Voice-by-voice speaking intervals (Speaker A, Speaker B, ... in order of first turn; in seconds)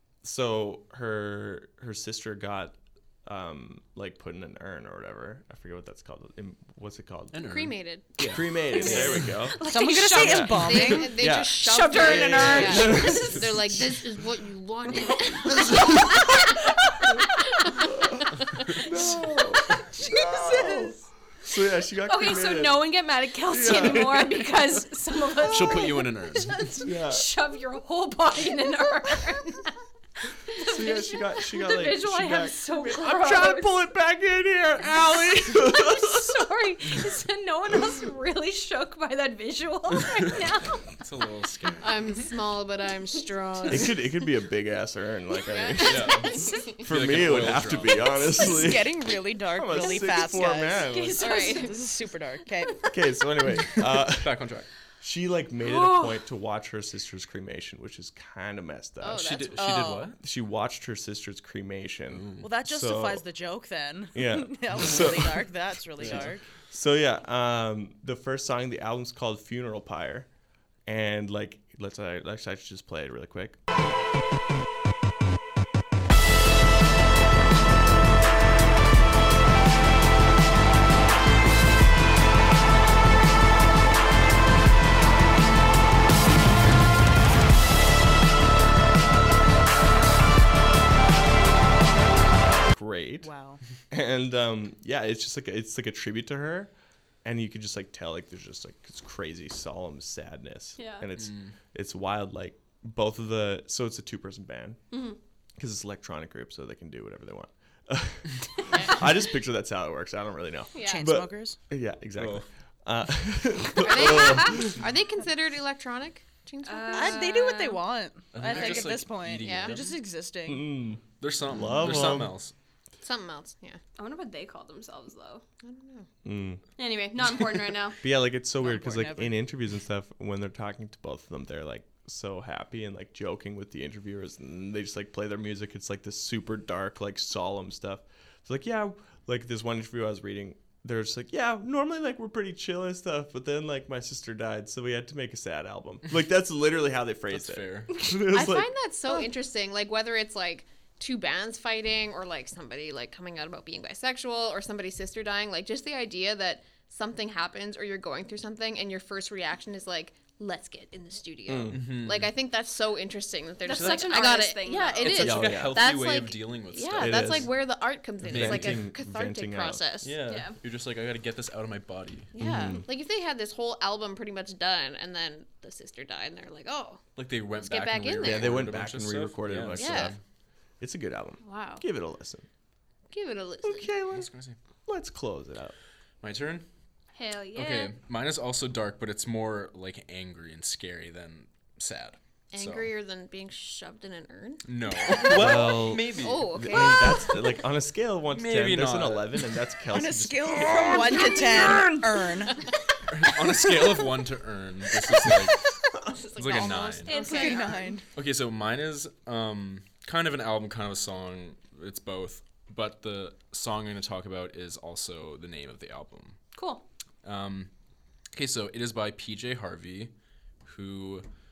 Speaker A: 0.2-7.5, 8.2-9.6, 10.1-13.9, 17.9-18.1, 18.8-22.9, 23.5-24.7, 26.8-27.2, 30.6-36.4, 43.7-49.0, 49.5-51.4, 52.9-59.5, 60.2-63.2, 64.1-70.3, 70.8-73.6, 92.5-93.3, 93.9-96.7, 97.2-104.8, 105.6-114.8, 120.5-122.4, 126.2-126.6, 128.0-148.7, 161.5-161.8, 165.2-165.8, 166.9-167.5, 168.2-169.8, 172.4-172.8, 178.2-180.2, 180.8-182.5, 183.6-184.3, 184.9-185.7, 195.2-202.0
Speaker B: 7.3-9.3, 25.5-26.6, 40.9-42.0, 45.8-48.4, 54.1-54.7, 59.1-60.2, 62.1-62.5, 66.0-66.3, 101.2-101.5, 112.2-112.5, 118.3-120.0, 121.2-122.5, 147.3-147.9, 161.7-162.3, 163.7-164.1, 165.0-167.5, 168.2-168.9, 170.0-172.3, 177.2-180.2, 184.1-184.6, 186.2-186.7, 187.5-192.9, 194.6-196.5, 198.3-199.4, 203.1-205.6, 206.3-207.2, 208.1-216.4, 217.2-217.7, 218.3-220.1, 220.6-221.2
Speaker C: 7.4-8.1, 10.4-18.8, 41.8-44.0, 45.4-46.8, 51.2-51.8, 59.0-59.9, 108.7-109.0, 110.7-111.1, 113.8-117.4, 118.5-118.8, 119.4-119.8, 123.0-123.8, 125.6-126.1, 148.3-170.2, 172.3-177.0, 177.6-178.6, 179.7-180.1, 181.4-181.8, 183.1-183.9, 192.5-197.4, 206.0-207.9
Speaker D: 8.8-11.1, 20.1-20.9, 48.4-50.9, 51.4-52.9, 59.6-60.1, 62.4-66.4, 93.2-93.6, 110.8-111.6, 116.9-120.7, 128.6-129.3, 199.9-202.6, 207.2-208.1
Speaker E: 8.8-13.5, 15.7-16.3, 19.2-20.8, 22.0-29.8, 30.3-33.8, 35.5-40.9, 46.3-46.6, 49.8-51.9, 52.6-52.9, 55.6-56.2, 100.8-101.1, 104.9-105.2, 116.7-117.8, 124.0-125.4, 126.8-128.0, 147.9-148.3, 163.6-165.3, 170.3-170.6, 187.1-187.9, 207.1-207.9, 216.5-216.8